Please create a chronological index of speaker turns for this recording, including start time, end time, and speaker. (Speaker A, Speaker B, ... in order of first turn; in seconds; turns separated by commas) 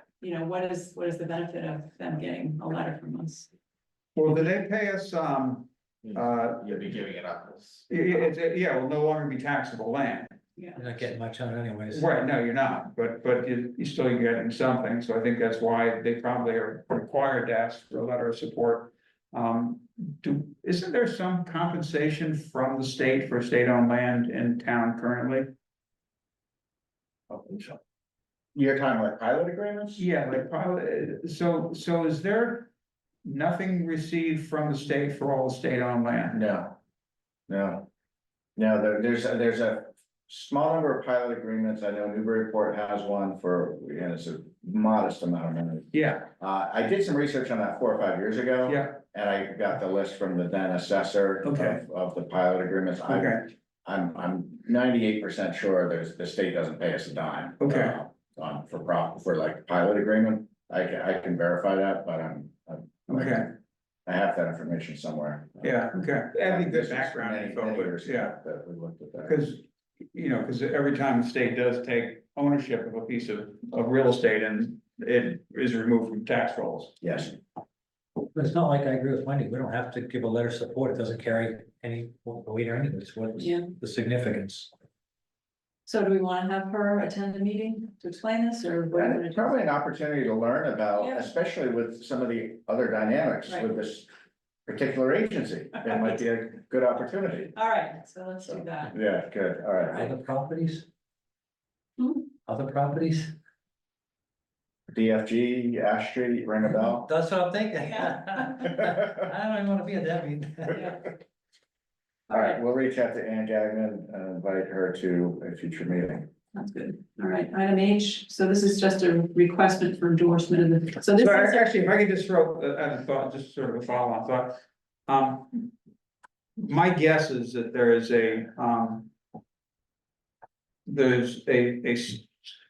Speaker A: 0.2-3.5, Speaker B: 4.2-6.9, Speaker C: 6.1-7.8, Speaker B: 7.9-10.4, Speaker A: 10.6-10.8, Speaker D: 10.8-12.1, Speaker B: 11.9-25.5, Speaker C: 27.3-27.8, Speaker C: 28.5-30.1, Speaker B: 30.0-32.7, Speaker B: 33.2-36.4, Speaker C: 36.3-36.8, Speaker C: 37.5-37.9, Speaker C: 38.6-63.5, Speaker B: 45.9-46.3, Speaker B: 48.7-49.0, Speaker B: 51.5-51.8, Speaker B: 53.1-53.5, Speaker B: 57.6-58.0, Speaker B: 63.1-63.5, Speaker C: 64.1-65.8, Speaker B: 65.6-68.3, Speaker C: 66.3-69.4, Speaker B: 69.3-77.0, Speaker C: 77.0-77.3, Speaker D: 78.3-84.7, Speaker A: 83.4-83.7, Speaker A: 85.9-89.6, Speaker C: 88.9-94.1, Speaker A: 91.0-91.2, Speaker C: 94.7-97.5, Speaker A: 97.5-99.0, Speaker C: 98.5-100.1, Speaker D: 99.9-100.9, Speaker A: 102.0-102.3, Speaker D: 102.5-103.3, Speaker C: 104.9-107.1, Speaker D: 106.7-111.0, Speaker A: 110.7-111.0, Speaker A: 112.3-112.6, Speaker C: 112.3-116.3, Speaker A: 116.5-121.7, Speaker B: 121.2-125.7, Speaker B: 126.6-129.1, Speaker B: 130.9-132.3